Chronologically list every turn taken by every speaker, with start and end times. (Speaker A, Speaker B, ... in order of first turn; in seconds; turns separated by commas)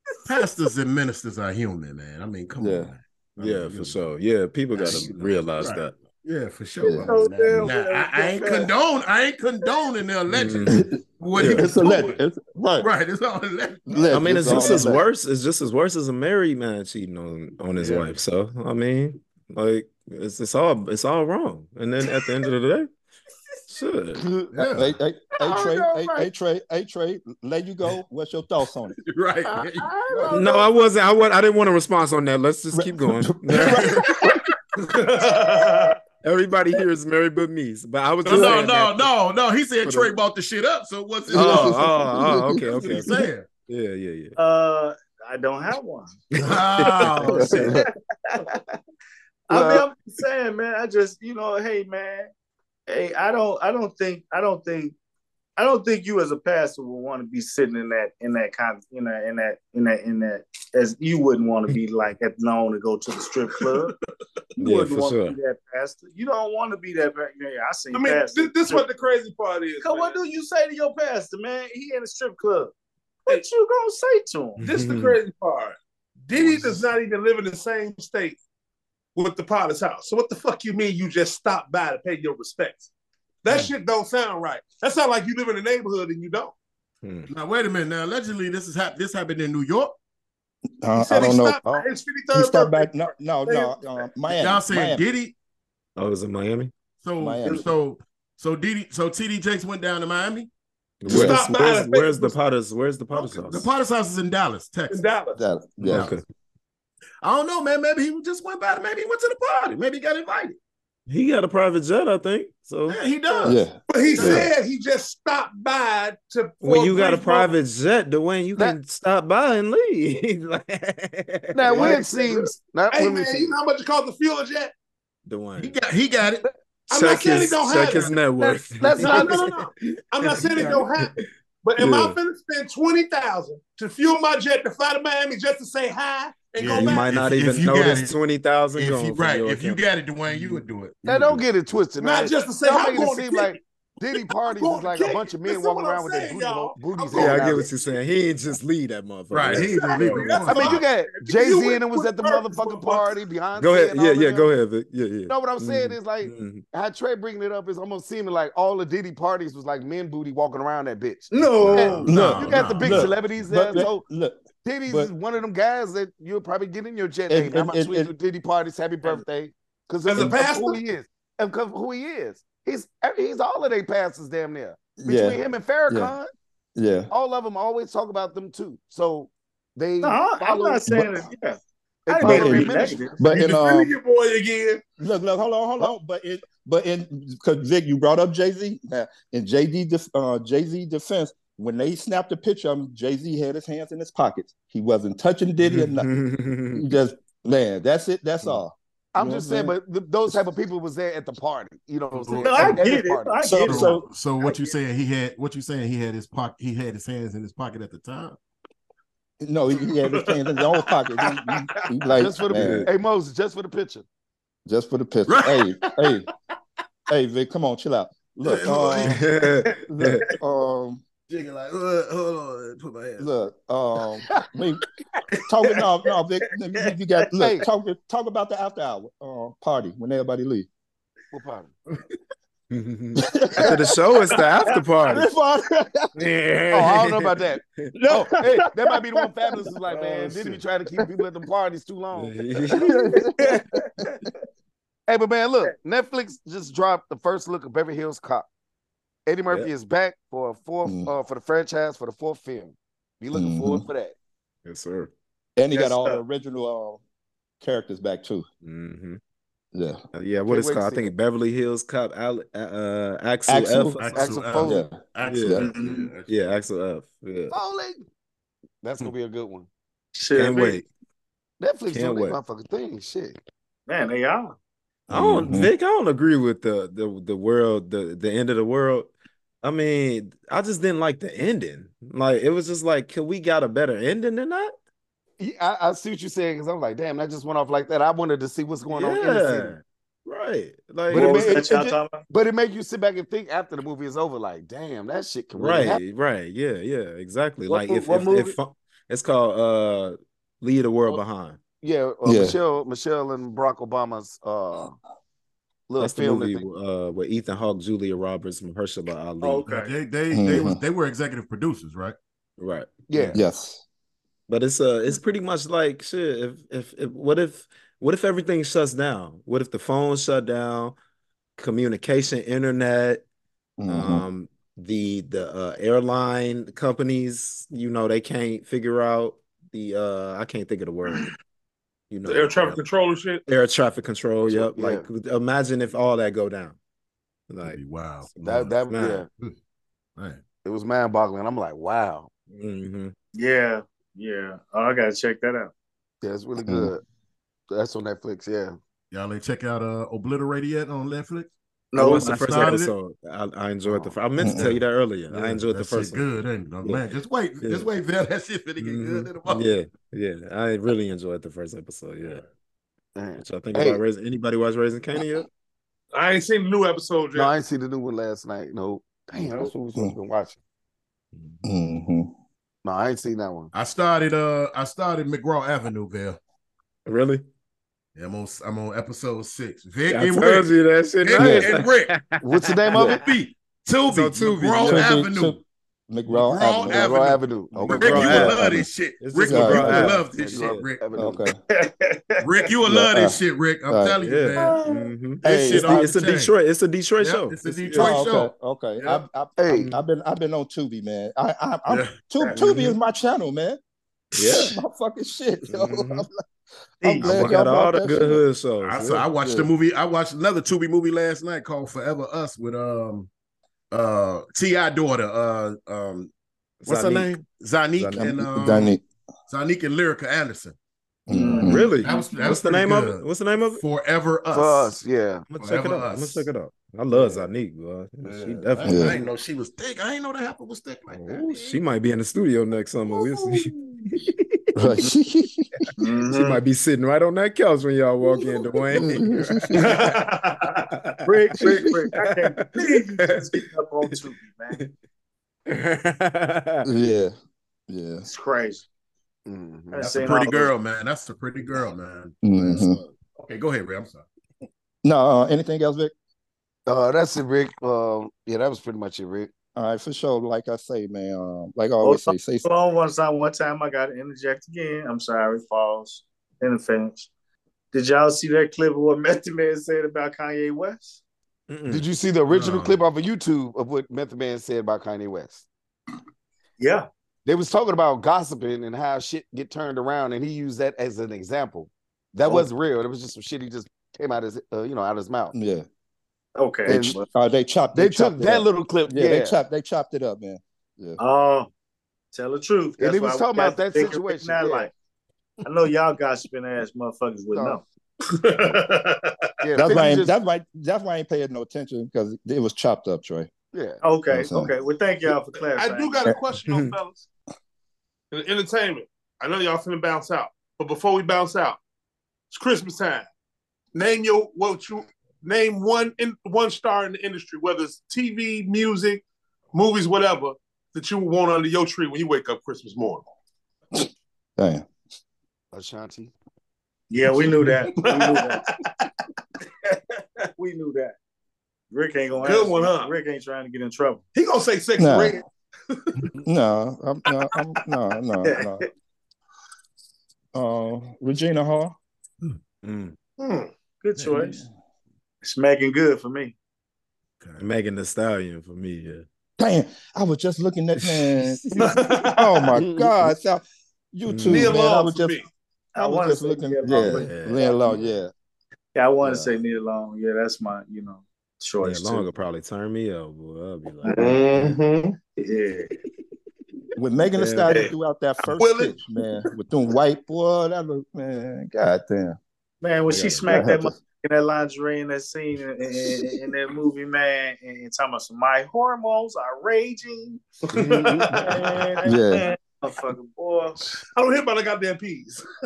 Speaker A: 0.2-4.0, Speaker B: 2.6-2.9, Speaker C: 3.4-6.0, Speaker A: 4.8-12.2, Speaker B: 6.8-7.1, Speaker D: 7.0-8.7, Speaker C: 10.3-11.7, Speaker B: 10.7-12.9, Speaker A: 12.8-14.8, Speaker B: 13.9-15.0, Speaker C: 14.1-22.9, Speaker A: 17.8-18.1, Speaker C: 23.7-24.4, Speaker E: 24.2-24.5, Speaker A: 24.5-24.9, Speaker B: 24.7-28.9, Speaker C: 25.6-26.1, Speaker A: 29.0-30.3, Speaker C: 29.9-34.4, Speaker F: 30.2-30.6, Speaker B: 32.7-34.2, Speaker A: 33.6-34.0, Speaker F: 34.9-36.0, Speaker C: 36.2-39.1, Speaker A: 38.2-43.5, Speaker C: 39.8-40.1, Speaker B: 41.3-43.2, Speaker C: 41.3-44.4, Speaker D: 44.4-46.2, Speaker C: 46.4-47.7, Speaker A: 46.4-47.8, Speaker D: 47.2-48.5, Speaker B: 47.3-47.8, Speaker D: 49.5-52.3, Speaker E: 49.5-49.9, Speaker D: 52.9-54.9, Speaker D: 55.6-63.9, Speaker D: 64.6-68.8, Speaker C: 64.6-65.4, Speaker F: 67.9-70.2, Speaker D: 69.8-72.7, Speaker D: 73.3-74.6, Speaker C: 74.6-75.2, Speaker F: 74.6-78.4, Speaker A: 76.3-76.8, Speaker F: 79.1-82.9, Speaker F: 83.4-86.5, Speaker C: 87.0-87.3, Speaker A: 87.3-89.9, Speaker B: 90.8-95.0, Speaker F: 90.9-93.7, Speaker A: 94.3-95.3, Speaker C: 96.0-96.7, Speaker A: 97.0-100.5, Speaker B: 97.2-97.7, Speaker C: 101.0-103.7, Speaker F: 101.0-102.4, Speaker A: 103.1-105.0, Speaker F: 104.9-105.4, Speaker B: 105.3-106.1, Speaker A: 105.8-106.1, Speaker C: 105.8-106.2, Speaker A: 107.2-110.6, Speaker C: 111.1-113.0, Speaker A: 112.9-114.5, Speaker B: 113.4-114.5, Speaker F: 113.9-117.5, Speaker C: 116.6-122.1, Speaker E: 121.5-123.5, Speaker F: 121.7-124.7, Speaker C: 125.2-125.8, Speaker A: 125.6-126.5, Speaker F: 126.9-128.1, Speaker C: 126.9-132.2, Speaker A: 127.8-128.1, Speaker E: 128.4-129.4, Speaker F: 129.0-137.1, Speaker A: 136.6-138.2, Speaker C: 136.7-140.6, Speaker A: 138.8-141.5, Speaker E: 141.0-147.7, Speaker F: 142.0-143.6, Speaker F: 144.1-147.9, Speaker C: 147.1-150.4, Speaker A: 149.3-150.8, Speaker F: 149.5-153.2, Speaker E: 150.4-154.5, Speaker C: 153.6-156.6, Speaker E: 155.3-164.0, Speaker D: 161.3-162.1, Speaker A: 161.6-163.2, Speaker B: 162.1-165.1, Speaker E: 164.6-176.3, Speaker B: 167.3-168.1, Speaker F: 170.0-170.8, Speaker B: 175.0-176.1, Speaker B: 176.8-177.1, Speaker E: 177.1-180.8, Speaker D: 180.0-183.3, Speaker B: 180.9-181.3, Speaker E: 182.1-183.1, Speaker B: 182.2-183.9, Speaker F: 183.2-184.8, Speaker B: 185.0-196.1, Speaker C: 195.6-196.9, Speaker B: 196.7-199.7, Speaker E: 199.1-203.4, Speaker A: 202.2-202.8, Speaker D: 202.3-204.7, Speaker B: 203.4-204.1, Speaker A: 203.6-208.4, Speaker B: 209.4-212.9, Speaker E: 212.2-214.0, Speaker C: 212.5-212.9, Speaker B: 214.7-216.3, Speaker A: 215.3-216.2, Speaker B: 217.1-219.2, Speaker A: 218.4-219.2, Speaker C: 219.0-220.2, Speaker B: 219.9-221.0, Speaker A: 221.3-223.3, Speaker B: 223.2-224.8, Speaker B: 225.4-230.7, Speaker E: 227.4-227.6, Speaker E: 231.3-231.7, Speaker C: 232.7-235.3, Speaker B: 233.2-233.9, Speaker D: 234.3-234.8, Speaker B: 235.1-236.1, Speaker C: 236.1-237.9, Speaker E: 236.7-242.4, Speaker C: 242.1-243.1, Speaker B: 242.8-244.1, Speaker D: 242.8-243.9, Speaker E: 245.1-248.5, Speaker E: 249.2-254.1, Speaker B: 250.8-251.1, Speaker B: 253.3-253.8, Speaker C: 254.6-255.1, Speaker B: 255.6-257.0, Speaker D: 255.7-256.2, Speaker B: 257.6-258.4, Speaker C: 258.6-259.2, Speaker B: 259.7-260.0, Speaker C: 260.1-264.2, Speaker E: 260.5-261.1, Speaker B: 263.5-264.0, Speaker A: 264.0-266.3, Speaker E: 264.1-264.9, Speaker B: 264.6-265.7, Speaker C: 265.2-265.7, Speaker D: 265.6-266.1, Speaker C: 266.2-267.5, Speaker E: 267.5-268.0, Speaker E: 268.8-269.7, Speaker D: 270.1-270.8, Speaker C: 270.3-270.9, Speaker E: 271.6-273.4, Speaker C: 271.9-272.4, Speaker D: 273.9-274.6, Speaker B: 275.1-275.7, Speaker C: 275.1-279.1, Speaker C: 279.6-284.7, Speaker E: 285.4-289.7, Speaker C: 288.9-291.6, Speaker E: 291.1-296.0, Speaker D: 291.1-292.2, Speaker C: 295.5-301.6, Speaker D: 297.7-298.5, Speaker E: 301.8-304.9, Speaker B: 302.2-302.6, Speaker E: 305.9-306.6, Speaker C: 306.0-309.7, Speaker D: 309.4-309.9, Speaker A: 309.6-312.1, Speaker B: 310.3-310.8, Speaker C: 312.6-313.4, Speaker E: 313.1-313.4, Speaker B: 313.3-313.8, Speaker C: 314.5-320.9, Speaker C: 321.6-323.2, Speaker B: 323.8-324.2, Speaker C: 323.9-331.3, Speaker C: 332.1-332.8, Speaker F: 332.2-333.4, Speaker C: 333.5-336.8, Speaker E: 334.4-335.1, Speaker C: 337.5-337.8, Speaker A: 337.6-338.7, Speaker C: 338.4-339.2, Speaker E: 338.4-339.3, Speaker A: 339.3-339.6, Speaker E: 340.6-342.3, Speaker C: 342.5-343.1, Speaker D: 343.3-345.7, Speaker E: 346.2-347.0, Speaker B: 346.6-346.9, Speaker E: 347.7-348.8, Speaker A: 349.1-352.9, Speaker D: 351.9-352.7, Speaker C: 351.9-356.2, Speaker E: 353.9-354.1, Speaker B: 354.4-354.7, Speaker A: 354.5-359.7, Speaker C: 357.6-357.9, Speaker C: 358.8-362.4, Speaker A: 362.2-362.5, Speaker E: 363.1-364.0, Speaker C: 363.4-365.5, Speaker F: 366.1-367.5, Speaker E: 367.3-370.6, Speaker C: 371.4-371.6, Speaker B: 371.6-372.3, Speaker E: 372.8-373.7, Speaker A: 373.7-376.4, Speaker C: 377.1-377.4, Speaker A: 378.1-382.1, Speaker C: 380.1-383.1, Speaker B: 381.4-381.7, Speaker E: 382.4-383.2, Speaker B: 382.9-383.2, Speaker A: 383.2-385.6, Speaker C: 384.1-385.1, Speaker B: 384.8-387.1, Speaker A: 386.3-391.1, Speaker E: 386.9-388.5, Speaker B: 387.8-388.9, Speaker C: 387.8-388.6, Speaker C: 389.2-390.8, Speaker B: 389.4-390.2, Speaker E: 390.3-391.5, Speaker B: 391.1-391.6, Speaker D: 391.7-392.6, Speaker A: 392.4-394.8, Speaker B: 392.9-396.1, Speaker C: 394.2-398.2, Speaker A: 395.4-396.5, Speaker A: 397.2-399.2, Speaker B: 397.9-403.8, Speaker E: 399.6-399.9, Speaker C: 399.7-400.0, Speaker A: 401.9-402.8, Speaker C: 404.3-404.8, Speaker B: 404.4-406.3, Speaker C: 405.7-406.3, Speaker D: 407.0-407.5, Speaker B: 407.0-408.4, Speaker C: 407.2-409.3, Speaker A: 408.8-413.3, Speaker B: 409.4-409.7, Speaker A: 413.9-416.3, Speaker C: 416.8-417.4, Speaker A: 416.9-419.0, Speaker C: 417.9-418.4, Speaker B: 418.2-419.0, Speaker A: 419.5-420.8, Speaker B: 421.3-421.9, Speaker D: 421.3-421.9, Speaker C: 421.5-423.8, Speaker A: 422.0-423.2, Speaker A: 423.8-424.9, Speaker E: 424.5-425.4, Speaker C: 425.5-429.2, Speaker A: 425.6-426.5, Speaker E: 427.1-427.4, Speaker A: 428.2-431.8, Speaker B: 428.8-429.2, Speaker C: 431.1-435.0, Speaker B: 434.8-435.9, Speaker D: 436.0-436.6, Speaker C: 436.3-440.1, Speaker B: 438.9-439.9, Speaker D: 439.8-444.8, Speaker C: 440.7-443.6, Speaker B: 441.6-442.0, Speaker C: 445.7-446.9, Speaker B: 446.8-447.3, Speaker B: 447.9-448.3, Speaker D: 448.2-448.8, Speaker E: 449.4-450.0, Speaker D: 449.9-450.7, Speaker A: 450.0-454.2, Speaker B: 452.4-453.0, Speaker B: 455.0-456.1, Speaker E: 456.9-459.5, Speaker B: 459.8-462.7, Speaker D: 462.0-467.3, Speaker D: 467.9-471.2, Speaker C: 471.7-472.1, Speaker E: 471.9-475.6, Speaker A: 472.5-473.0, Speaker D: 476.8-477.1, Speaker E: 477.4-485.5, Speaker B: 485.5-485.9, Speaker D: 486.6-487.3, Speaker E: 486.9-487.2, Speaker B: 486.9-491.2, Speaker E: 487.9-489.6, Speaker D: 491.2-491.7, Speaker D: 492.3-494.9, Speaker E: 493.0-494.9, Speaker D: 495.6-497.8, Speaker F: 498.3-499.3, Speaker E: 499.6-500.3, Speaker B: 499.8-503.5, Speaker E: 503.7-504.0, Speaker D: 504.0-506.3, Speaker B: 504.3-504.7, Speaker F: 505.7-507.2, Speaker C: 506.7-506.9, Speaker F: 508.3-511.8, Speaker F: 512.5-513.3, Speaker F: 513.9-519.2, Speaker F: 519.7-523.2, Speaker B: 523.9-524.8, Speaker E: 525.7-526.3, Speaker D: 527.1-528.6, Speaker F: 528.0-528.6, Speaker D: 530.5-531.1, Speaker D: 531.9-534.2, Speaker F: 532.4-533.1, Speaker F: 534.3-536.3, Speaker B: 535.0-535.4, Speaker B: 536.4-538.9, Speaker D: 538.4-538.9, Speaker B: 540.5-541.9, Speaker C: 542.8-543.1, Speaker F: 543.4-543.7, Speaker D: 544.0-544.6, Speaker D: 545.4-546.5, Speaker C: 547.6-549.2, Speaker B: 549.6-555.4, Speaker F: 551.8-552.7, Speaker E: 552.7-553.3, Speaker C: 554.3-554.8, Speaker F: 554.4-555.5, Speaker D: 555.9-557.8, Speaker B: 556.0-558.3, Speaker C: 556.9-557.8, Speaker D: 558.9-562.3, Speaker C: 561.8-564.7, Speaker F: 564.1-565.1, Speaker E: 564.1-564.5, Speaker D: 565.4-565.9, Speaker B: 567.0-572.4, Speaker C: 567.4-567.8, Speaker F: 568.5-569.0, Speaker D: 572.8-580.4, Speaker C: 573.1-573.5, Speaker B: 573.4-573.9, Speaker F: 580.7-581.7, Speaker E: 580.8-581.2, Speaker D: 581.3-584.0, Speaker B: 582.0-582.5, Speaker F: 584.1-585.4